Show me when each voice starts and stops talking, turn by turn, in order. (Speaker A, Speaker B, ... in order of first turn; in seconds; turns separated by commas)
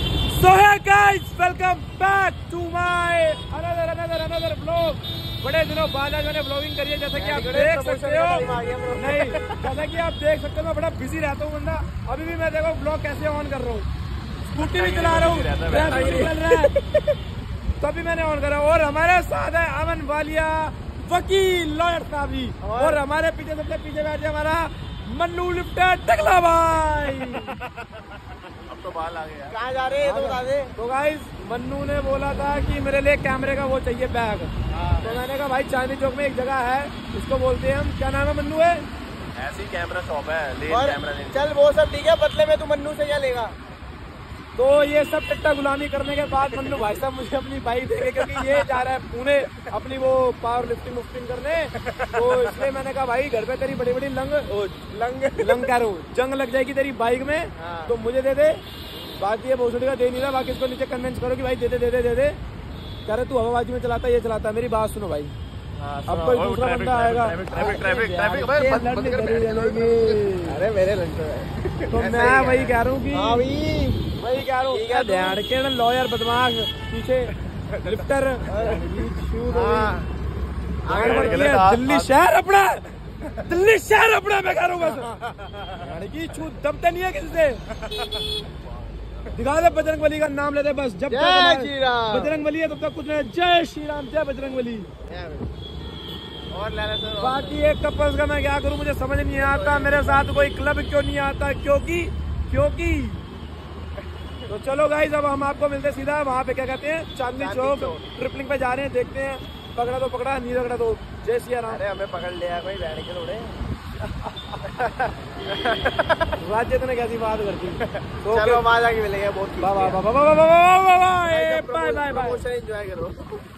Speaker A: 0.3-13.9, Speaker B: 7.2-9.7, Speaker A: 14.5-16.7, Speaker C: 14.6-16.3, Speaker B: 15.7-16.7, Speaker A: 17.8-27.6, Speaker B: 22.6-23.0, Speaker C: 28.7-29.6, Speaker B: 29.5-30.8, Speaker A: 30.0-38.9, Speaker B: 34.7-35.2, Speaker C: 39.4-41.5, Speaker B: 40.7-43.5, Speaker A: 44.6-58.6, Speaker B: 46.5-46.8, Speaker B: 48.1-48.7, Speaker B: 51.9-52.6, Speaker B: 54.9-55.7, Speaker B: 57.6-57.9, Speaker A: 59.2-62.4, Speaker A: 63.1-65.3, Speaker B: 65.8-66.4, Speaker A: 66.1-70.4, Speaker C: 66.4-70.7, Speaker B: 67.5-68.1, Speaker B: 68.7-74.0, Speaker A: 71.9-73.5, Speaker A: 74.2-77.3, Speaker B: 74.7-75.4, Speaker A: 77.8-80.0, Speaker B: 78.5-80.1, Speaker B: 80.8-81.7, Speaker C: 80.9-82.1, Speaker A: 80.9-85.1, Speaker B: 84.8-85.8, Speaker A: 85.8-87.6, Speaker C: 88.7-89.3, Speaker A: 89.3-94.9, Speaker B: 91.1-92.4, Speaker B: 95.1-95.5, Speaker B: 96.5-97.6, Speaker A: 97.2-103.2, Speaker B: 99.4-100.5, Speaker A: 104.5-111.8, Speaker B: 107.4-108.0, Speaker B: 111.7-113.5, Speaker B: 114.6-116.3, Speaker A: 116.4-118.7, Speaker B: 118.0-120.0, Speaker A: 119.6-122.4, Speaker B: 121.3-123.4